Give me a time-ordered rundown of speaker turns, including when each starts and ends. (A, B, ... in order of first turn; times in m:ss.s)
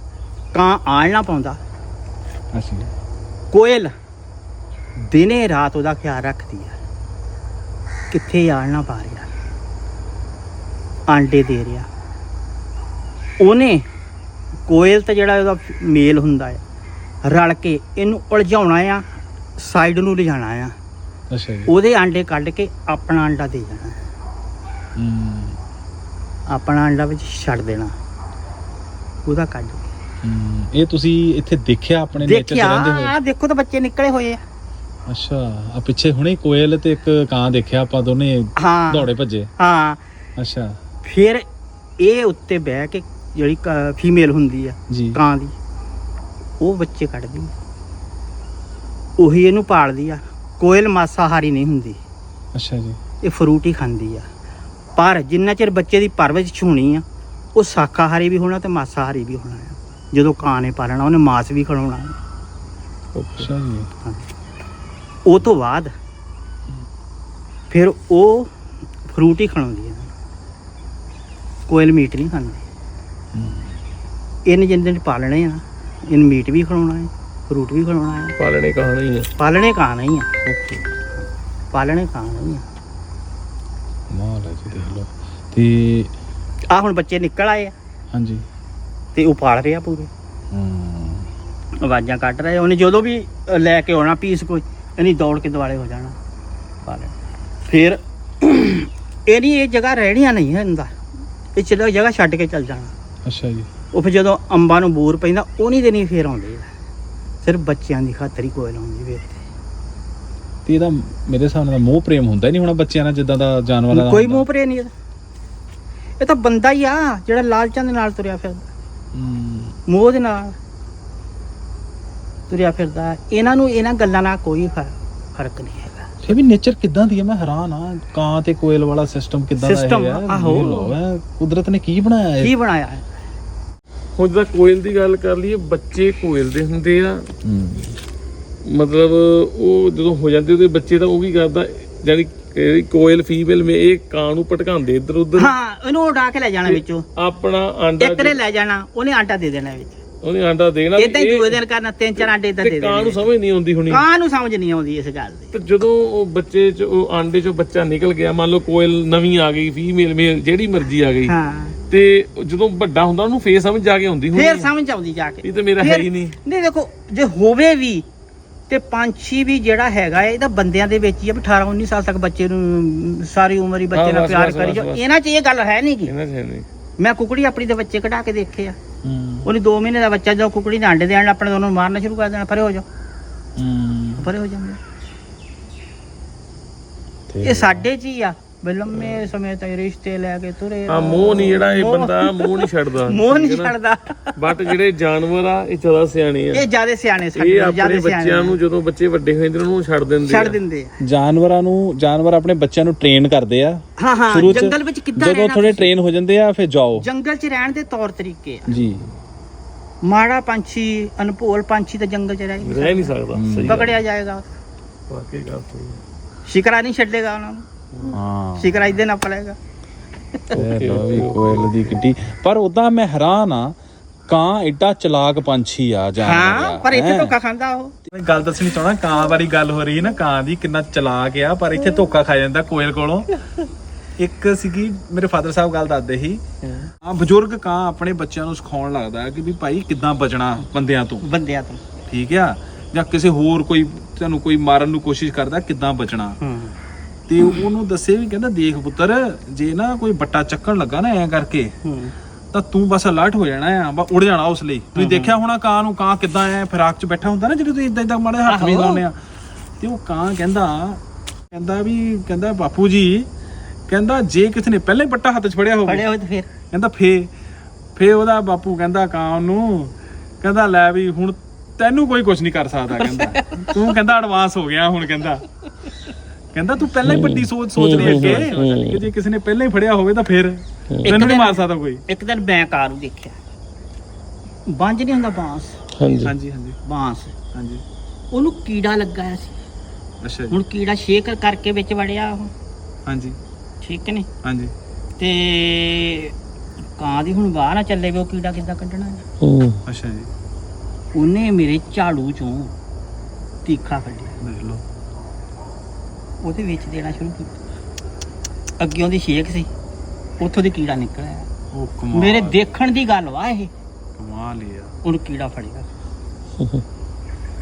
0:00.5-0:01.6 A
0:02.5-0:02.9 B
0:03.5-0:03.9 A
0:05.0-0:06.8 A
0:08.1-0:09.3 A
0:11.1-0:11.9 A
0:13.4-0:13.8 A
0:14.7-0:16.6 A
0:17.2-0:19.0 A
0:19.6-0:20.7 A
0:21.3-0:21.7 B
0:21.7-0:24.0 A
0:25.0-0:25.6 B
0:26.5-0:27.9 A
0:29.2-0:29.9 A
0:30.2-0:33.1 B
0:32.1-0:34.4 A
0:35.1-0:39.5 B
0:38.6-0:40.0 A
0:40.4-0:40.8 B
0:41.0-0:41.4 A
0:42.0-0:45.5 A
0:44.9-0:45.2 B
0:46.6-0:47.5 A
0:49.2-0:52.0 A
0:52.5-0:53.0 B
0:53.2-0:54.3 A
0:55.0-1:02.2 A
1:03.2-1:03.5 C
1:03.4-1:03.9 B
1:05.3-1:05.9 A
1:07.7-1:08.5 A
1:09.1-1:10.1 A
1:11.7-1:12.6 A
1:13.3-1:13.7 B
1:14.4-1:18.4 A
1:18.4-1:19.3 C
1:19.4-1:20.3 A
1:20.4-1:20.8 C
1:21.7-1:22.7 A
1:24.1-1:26.1 B
1:26.7-1:27.8 A
1:28.1-1:28.4 B
1:29.2-1:30.1 A
1:30.5-1:31.3 B
1:31.8-1:36.2 A
1:36.8-1:41.0 A
1:41.6-1:42.9 A
1:43.2-1:43.7 B
1:43.9-1:46.7 A
1:47.4-1:49.4 A
1:50.7-1:54.4 B
1:53.9-1:54.9 A
1:56.2-1:58.7 A
1:59.2-1:59.8 B
1:59.9-2:00.6 A
2:02.5-2:06.1 A
2:06.2-2:12.5 B
2:09.6-2:11.0 A
2:12.4-2:13.0 A
2:14.1-2:17.3 C
2:17.4-2:18.0 B
2:18.6-2:25.6 C
2:25.4-2:27.0 A
2:26.6-2:28.4 C
2:28.0-2:30.0 A
2:30.2-2:31.6 C
2:30.9-2:33.3 A
2:32.2-2:34.1 C
2:33.9-2:35.5 A
2:35.5-2:41.4 C
2:41.3-2:41.8 A
2:41.9-2:44.7 C
2:44.3-2:48.0 A
2:45.4-2:46.4 C
2:48.7-2:56.1 A
2:53.9-2:55.0 C
2:56.0-2:56.7 C
2:57.0-2:58.8 A
2:59.0-2:59.5 B
2:59.4-3:02.8 A
3:03.6-3:04.3 B
3:04.2-3:04.8 A
3:07.3-3:07.8 B
3:07.4-3:14.4 A
3:08.9-3:09.3 C
3:10.9-3:13.8 C
3:14.4-3:16.7 C
3:16.5-3:18.6 A
3:17.3-3:20.6 C
3:20.3-3:21.0 A
3:21.0-3:27.0 B
3:24.0-3:25.9 A
3:27.0-3:28.8 A
3:28.7-3:29.1 B
3:30.0-3:33.2 A
3:32.6-3:34.0 C
3:33.3-3:33.9 B
3:33.7-3:34.5 A
3:35.1-3:36.0 C
3:36.4-3:37.7 A
3:38.1-3:38.8 B
3:38.6-3:39.6 A
3:40.5-3:42.0 C
3:40.5-3:43.8 B
3:44.3-3:47.3 B
3:46.2-3:47.9 A
3:48.0-3:53.3 B
3:54.2-3:56.4 B
3:57.0-4:01.2 B
4:01.2-4:01.8 A
4:02.0-4:06.4 B
4:06.4-4:06.8 A
4:07.3-4:11.8 B
4:11.8-4:12.1 A
4:12.5-4:19.2 B
4:14.9-4:15.4 A
4:18.4-4:19.0 A
4:19.8-4:23.3 B
4:23.9-4:26.1 B
4:25.8-4:26.5 A
4:26.7-4:27.3 B
4:28.0-4:35.5 B
4:33.0-4:33.8 A
4:36.5-4:42.0 B
4:37.0-4:39.1 C
4:38.4-4:38.6 A
4:40.9-4:41.3 C
4:41.0-4:43.4 A
4:44.7-4:45.8 A
4:46.0-4:46.3 C
4:46.2-4:46.8 B
4:46.8-4:47.4 A
4:47.5-4:47.8 B
4:48.3-4:49.6 A
4:50.2-4:50.6 B
4:50.5-4:52.5 A
4:53.1-4:53.4 B
4:53.8-4:54.3 A
4:54.4-4:54.7 B
4:55.2-4:59.2 A
4:59.4-4:59.8 C
4:59.9-5:00.3 B
5:01.1-5:02.7 A
5:03.6-5:04.4 A
5:04.4-5:04.8 B
5:06.4-5:07.6 A
5:08.8-5:09.7 A
5:10.4-5:11.5 A
5:11.7-5:12.6 B
5:12.1-5:13.7 A
5:14.2-5:14.9 B
5:15.0-5:15.9 A